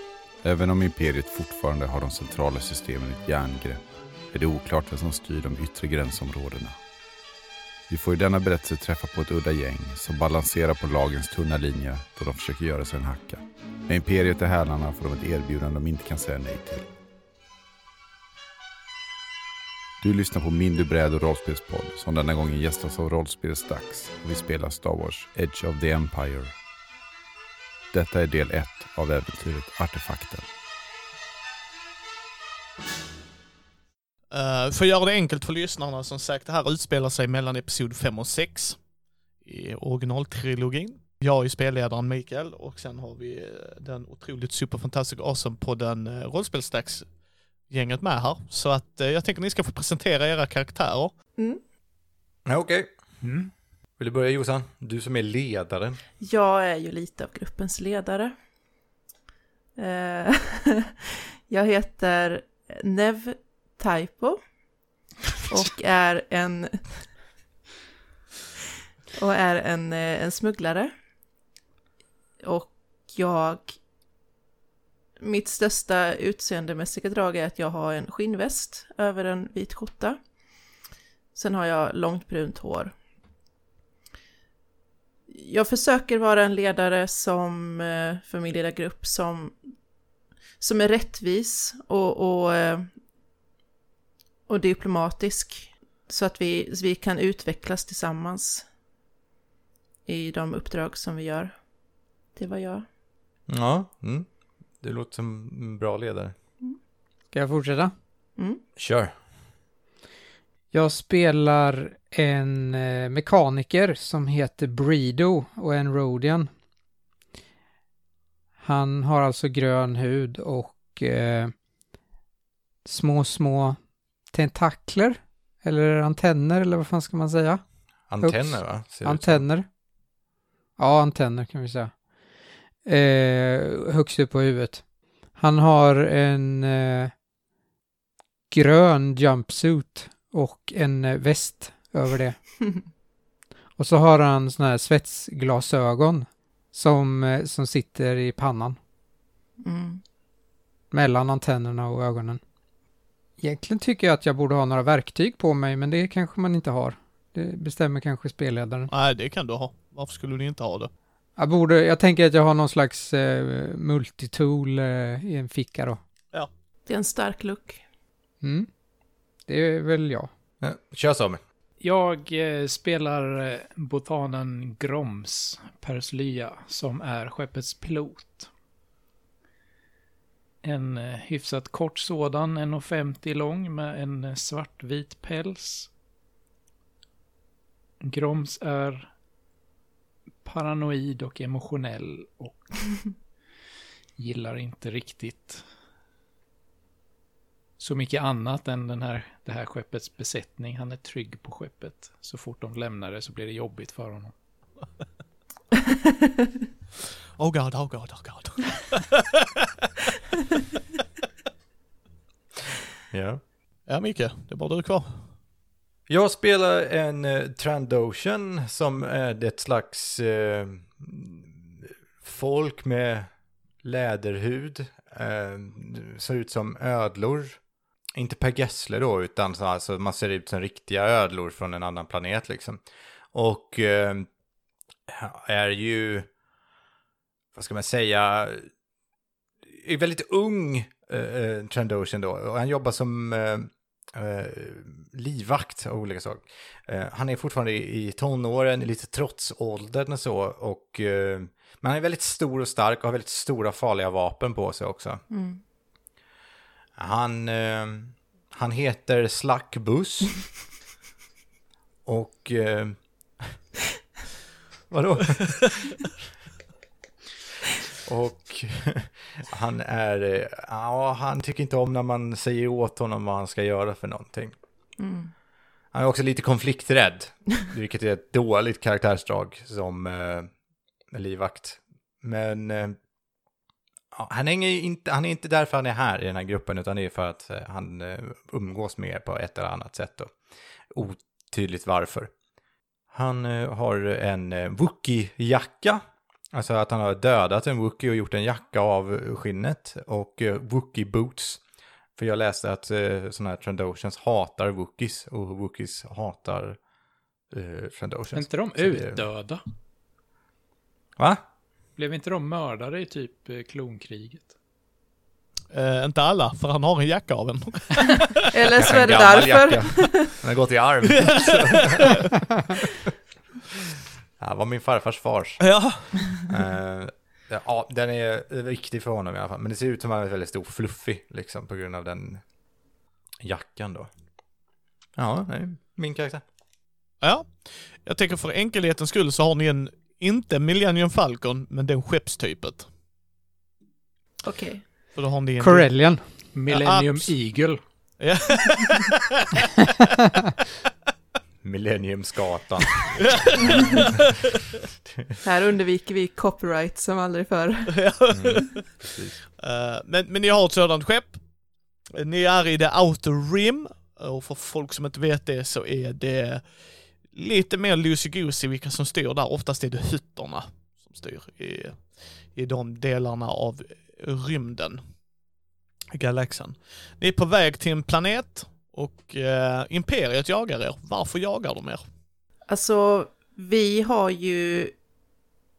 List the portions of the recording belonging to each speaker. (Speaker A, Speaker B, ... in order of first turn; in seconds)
Speaker A: 0.4-6.8, 7.9-16.9, 20.0-26.5, 27.9-30.4
Speaker B: 34.3-38.8, 39.4-47.0, 47.7-51.1, 158.9-160.9, 207.4-209.9, 213.9-215.2, 315.7-318.6, 321.2-322.3, 325.6-326.1, 337.2-342.9, 345.1-345.9, 346.7-347.3, 348.2-349.6, 353.2-354.2, 357.9-358.8, 359.6-361.4, 362.1-366.6, 367.2-375.0, 376.1-382.0
Speaker C: 52.5-52.9, 54.0-56.0, 103.5-104.3, 104.8-106.3, 108.8-109.1, 128.1-129.4, 170.6-171.4, 213.1-213.4, 216.1-223.3, 223.8-227.6, 228.2-232.8, 233.3-234.3, 235.1-236.3, 237.5-238.7, 239.8-255.2, 257.0-260.4, 262.1-263.0, 264.9-266.0, 268.0-274.5, 275.9-280.5, 281.1-283.0, 284.1-290.3, 290.9-292.3, 293.1-301.6, 302.1-306.8, 307.5-309.2, 311.2-311.4, 318.8-322.3, 324.4-325.6, 326.4-332.4, 333.4-334.1, 335.1-336.4, 351.6-354.1, 358.3-359.4
Speaker D: 53.2-53.5, 171.8-178.5, 180.6-185.9, 188.0-189.1, 190.4-192.9, 194.2-195.6, 197.8-204.3, 308.3-309.6, 311.9-314.5, 346.5-347.8
Speaker E: 56.2-58.3, 59.8-64.4, 65.5-67.0, 69.1-70.9, 72.4-73.8, 75.2-80.2, 81.3-82.9, 85.3-89.6, 90.6-92.9, 94.5-98.6, 100.1-101.5, 102.3-102.8, 149.6-150.0, 166.9-167.8, 255.3-255.6, 275.0-275.3, 318.5-320.3, 344.4-344.8, 355.4-358.0, 382.7-384.9
Speaker F: 107.3-107.9, 110.7-116.5, 118.6-121.5, 122.8-123.8, 124.3-127.6, 128.2-129.7, 130.8-131.9, 132.8-134.8, 135.3-137.1, 138.5-142.4, 143.8-148.8, 150.9-152.4, 153.4-158.9, 161.4-166.0, 168.4-168.7, 169.5-170.3, 345.6-346.2